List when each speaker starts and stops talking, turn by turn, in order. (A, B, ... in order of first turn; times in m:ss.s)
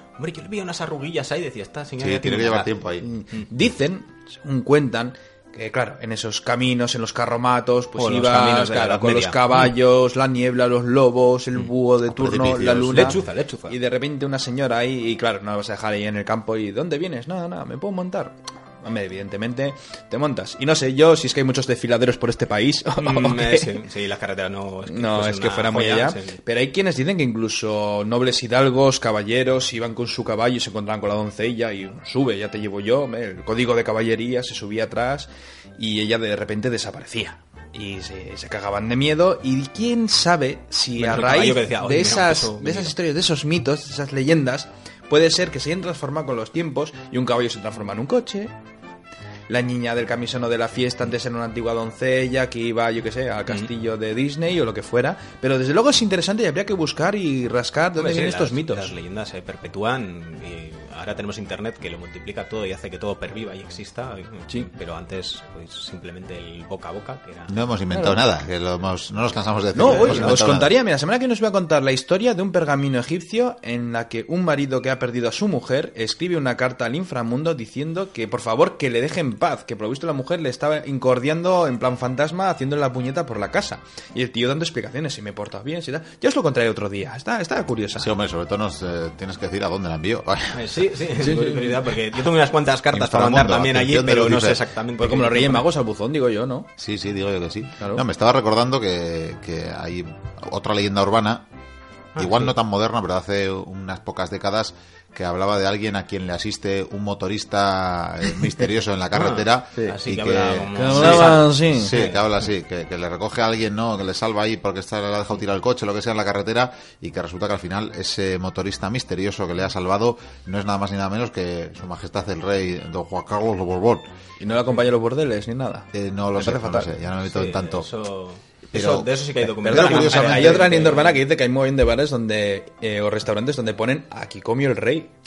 0:00.2-0:02.8 A
0:02.0-0:03.1 B
0:03.0-0:23.8 C
0:08.0-0:09.7 A
0:12.1-0:13.2 B
0:12.9-0:13.8 A
0:23.0-0:26.4 A
0:24.9-0:48.5 C
0:41.0-0:42.9 A
0:49.5-0:58.9 C
0:58.0-1:07.5 A
1:07.5-1:10.7 B
1:07.9-1:08.2 C
1:09.7-1:28.2 C
1:09.8-1:10.5 A
1:28.0-1:30.7 B
1:30.5-1:35.7 A
1:31.2-1:31.8 C
1:32.9-1:34.6 B
1:35.0-1:36.7 C
1:36.8-1:41.5 B
1:37.8-1:38.0 C
1:42.2-1:42.5 A
1:42.2-2:04.1 B
1:49.2-1:52.2 A
1:50.8-1:52.0 C
2:04.4-2:06.9 C
2:05.9-2:07.9 B
2:07.2-2:11.2 A
2:08.7-2:09.1 B
2:09.6-2:10.7 B
2:09.6-2:15.1 C